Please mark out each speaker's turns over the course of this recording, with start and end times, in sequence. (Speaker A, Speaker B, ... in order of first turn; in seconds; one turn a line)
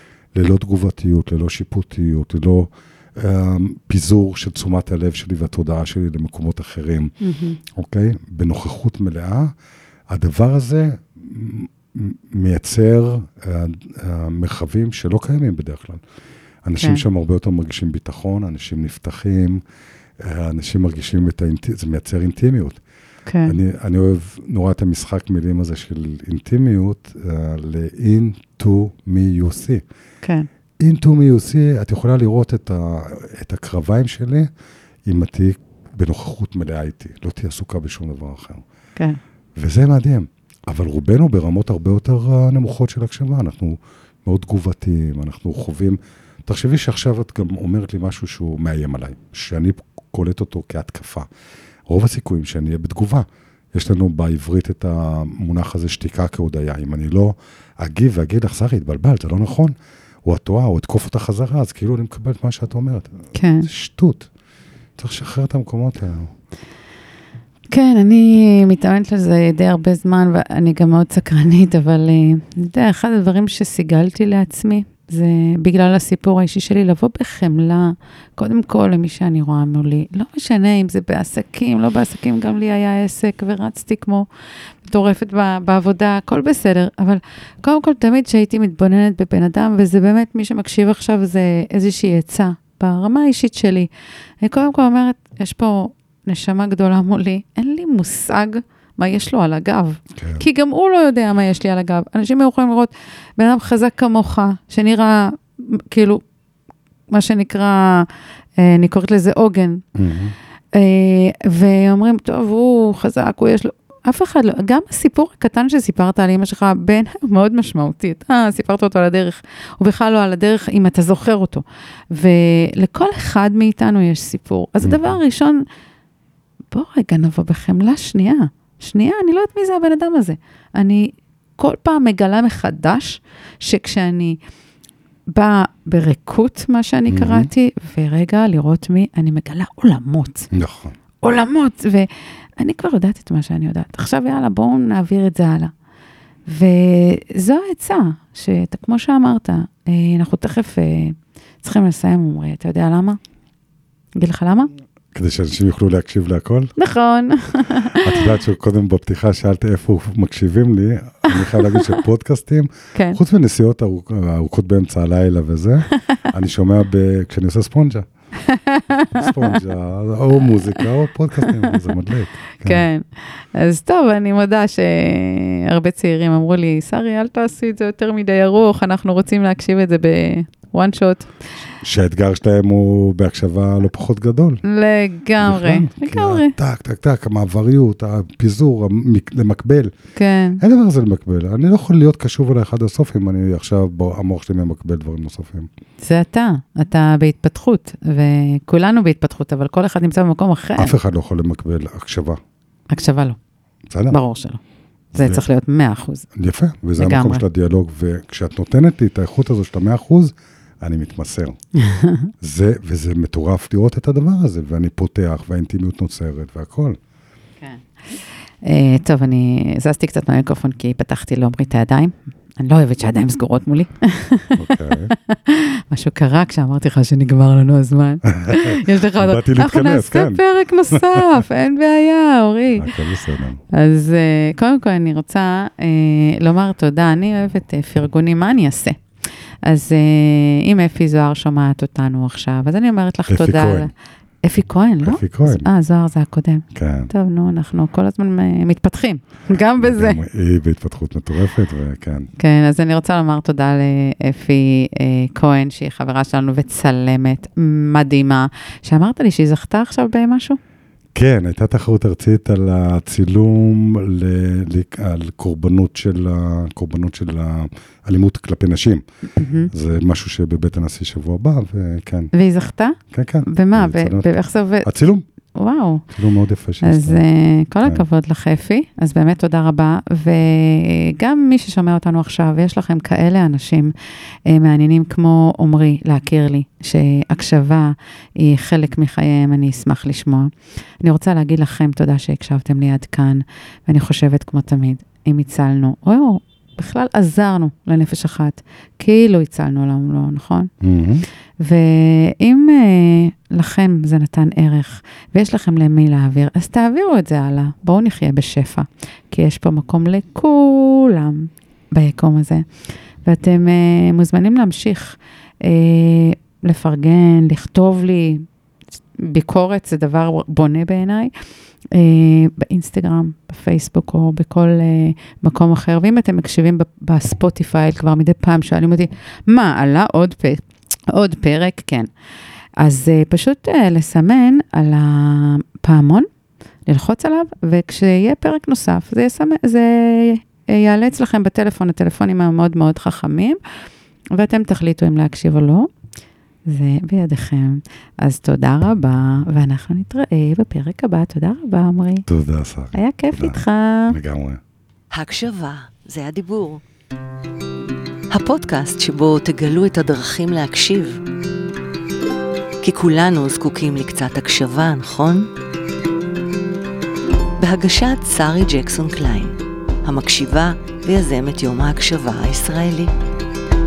Speaker A: 0.3-7.1
Speaker B: 7.2-7.6
Speaker A: 7.7-9.5
Speaker A: 10.1-16.0
Speaker A: 16.6-19.6
Speaker A: 20.2-22.8
Speaker B: 23.3-23.6
Speaker A: 23.5-29.8
Speaker B: 30.2-30.5
Speaker A: 30.8-34.5
Speaker A: 35.1-38.6
Speaker A: 39.6-51.3
Speaker A: 51.9-59.7
Speaker A: 60.2-63.1
Speaker B: 63.3-63.7
Speaker A: 63.7-64.3
Speaker A: 65.0-66.3
Speaker B: 67.7-84.3
Speaker B: 84.9-93.9
Speaker B: 94.4-106.2
Speaker B: 107.1-109.8
Speaker A: 110.0-110.3
Speaker B: 110.7-125.6
Speaker A: 124.8-125.2
Speaker B: 126.7-134.4
Speaker B: 135.3-140.5
Speaker A: 137.1-137.5
Speaker A: 140.5-140.9
Speaker B: 141.2-145.7
Speaker B: 146.5-153.2
Speaker B: 154.2-154.7
Speaker A: 155.1-156.8
Speaker B: 156.8-158.3
Speaker A: 157.9-168.1
Speaker B: 161.3-162.0
Speaker B: 165.9-166.2
Speaker B: 168.4-169.6
Speaker A: 169.1-172.8
Speaker B: 171.4-171.8
Speaker B: 172.6-181.3
Speaker A: 181.8-184.6
Speaker B: 184.6-186.5
Speaker A: 185.4-189.9
Speaker B: 190.2-190.6
Speaker A: 190.6-195.7
Speaker B: 196.0-200.9
Speaker A: 200.8-202.4
Speaker B: 202.9-203.4
Speaker A: 203.9-204.2
Speaker B: 204.1-204.6
Speaker A: 205.2-205.4
Speaker B: 205.2-206.3
Speaker A: 206.3-211.6
Speaker B: 207.0-207.4
Speaker B: 211.8-212.3
Speaker A: 212.4-217.0
Speaker B: 217.6-233.0
Speaker A: 224.6-225.1
Speaker A: 228.3-231.2
Speaker A: 232.8-233.6
Speaker B: 233.7-239.0
Speaker B: 239.7-243.9
Speaker A: 243.3-243.9
Speaker B: 244.4-250.2
Speaker A: 245.0-245.7
Speaker A: 246.8-247.1
Speaker A: 249.8-252.3
Speaker B: 252.4-260.6
Speaker A: 261.1-269.0
Speaker B: 269.4-269.7
Speaker A: 269.7-272.3
Speaker B: 272.3-274.9
Speaker A: 273.1-274.3
Speaker A: 274.8-275.2
Speaker B: 275.6-276.1
Speaker A: 276.1-277.2
Speaker B: 276.8-283.9
Speaker B: 284.5-300.7
Speaker A: 300.8-301.2
Speaker B: 301.6-312.6
Speaker B: 313.2-318.5
Speaker B: 319.2-321.3
Speaker B: 321.9-332.1
Speaker B: 332.8-336.3
Speaker B: 336.9-343.6
Speaker B: 344.4-345.9
Speaker B: 346.7-352.3
Speaker A: 352.3-354.6
Speaker B: 352.9-354.2
Speaker C: 355.1-356.8
Speaker C: 358.3-361.2
Speaker C: 362.8-365.5
Speaker C: 367.6-373.1